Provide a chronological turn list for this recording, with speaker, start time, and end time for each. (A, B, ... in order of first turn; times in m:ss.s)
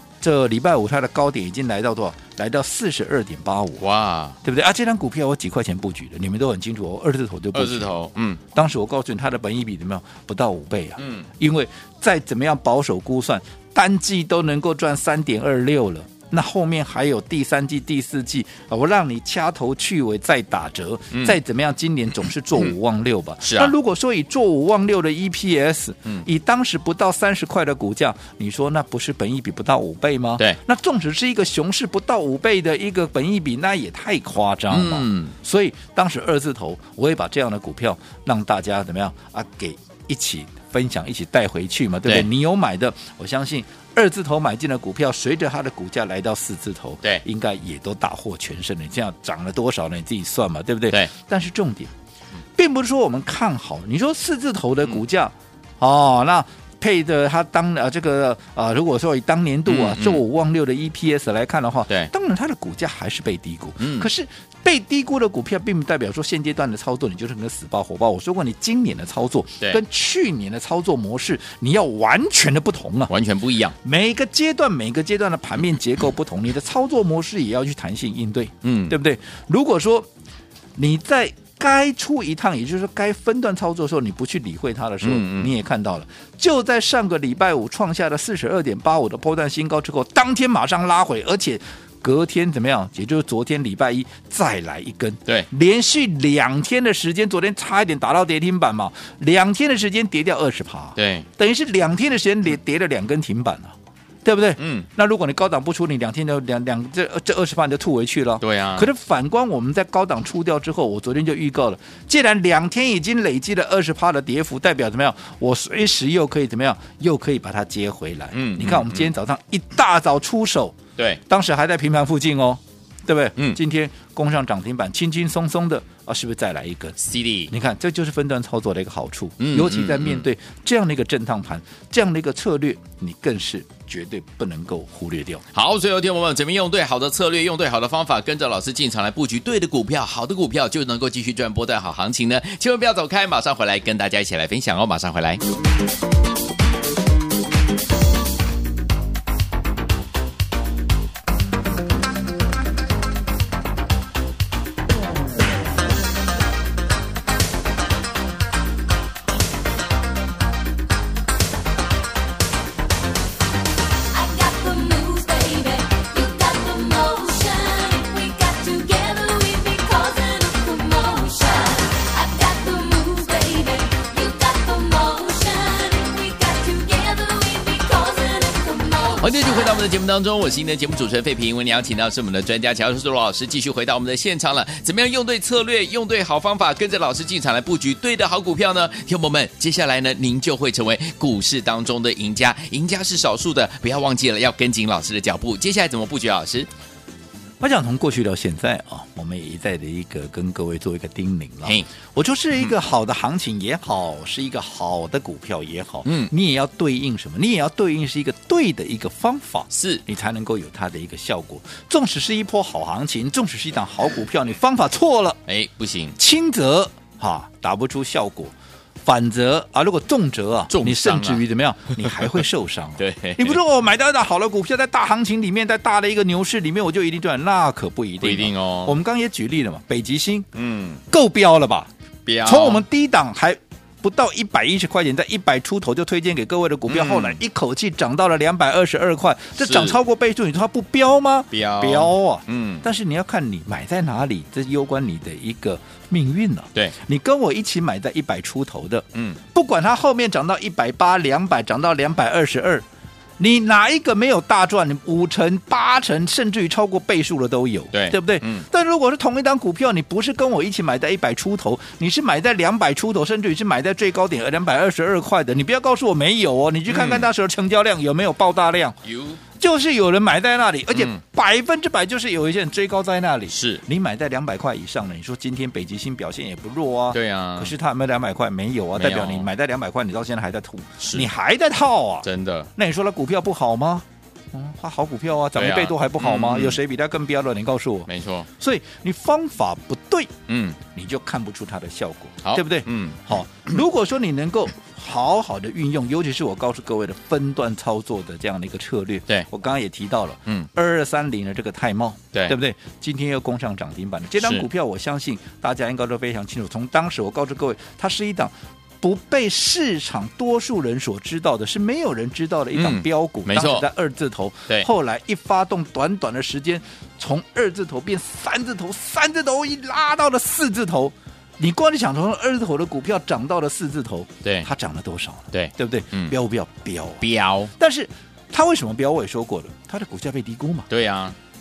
0:00.2-0:03.8 A
0:03.8-0:04.4 B
0:04.4-0:08.0 A
0:07.5-0:08.4 B
0:08.5-0:51.9 A
0:11.0-0:11.3 B
0:21.1-0:21.4 B
0:23.4-0:23.7 B
0:34.7-0:35.3 B
0:52.6-1:13.1 A
0:59.7-1:00.2 B
1:03.8-1:04.1 B
1:13.1-1:13.8 B
1:13.8-1:20.1 A
1:18.6-1:19.0 B
1:20.8-2:07.0 A
1:25.0-1:25.5 B
1:41.0-1:41.3 B
1:44.6-1:44.9 B
1:48.4-1:48.9 B
1:58.3-1:59.1 B
2:07.0-2:07.5 B
2:07.5-2:15.4 A
2:09.4-2:10.3 B
2:15.5-2:25.4 B
2:44.1-2:59.4 C
2:59.2-3:16.7 B
3:17.6-3:35.4 A
3:26.0-3:26.3 B
3:29.7-3:30.0 B
3:35.5-3:36.2 B
3:36.2-3:38.5 A
3:39.0-3:50.5 A
3:40.7-3:41.4 B
3:42.0-3:42.4 B
3:43.0-3:43.6 B
3:48.2-3:49.0 B
3:50.6-3:51.0 B
3:51.1-3:51.9 A
3:52.2-3:52.8 B
3:52.4-4:12.8 A
3:56.9-3:57.4 B
3:59.6-4:00.0 B
4:01.5-4:02.8 B
4:13.4-4:29.0 A
4:17.9-4:18.7 B
4:26.9-4:27.3 B
4:29.0-4:29.4 B
4:29.6-4:50.3 A
4:30.9-4:31.2 B
4:33.5-4:33.8 B
4:37.1-4:37.7 B
4:39.0-4:39.5 B
4:41.0-4:41.3 B
4:42.2-4:42.7 B
4:45.6-4:46.8 B
4:48.1-4:48.5 B
4:50.5-4:50.8 B
4:50.9-5:27.2 A
4:52.4-4:53.2 B
5:04.4-5:04.7 B
5:12.7-5:13.9 B
5:25.5-5:26.4 B
5:27.2-5:27.7 B
5:27.8-5:30.9 A
5:30.9-5:31.4 B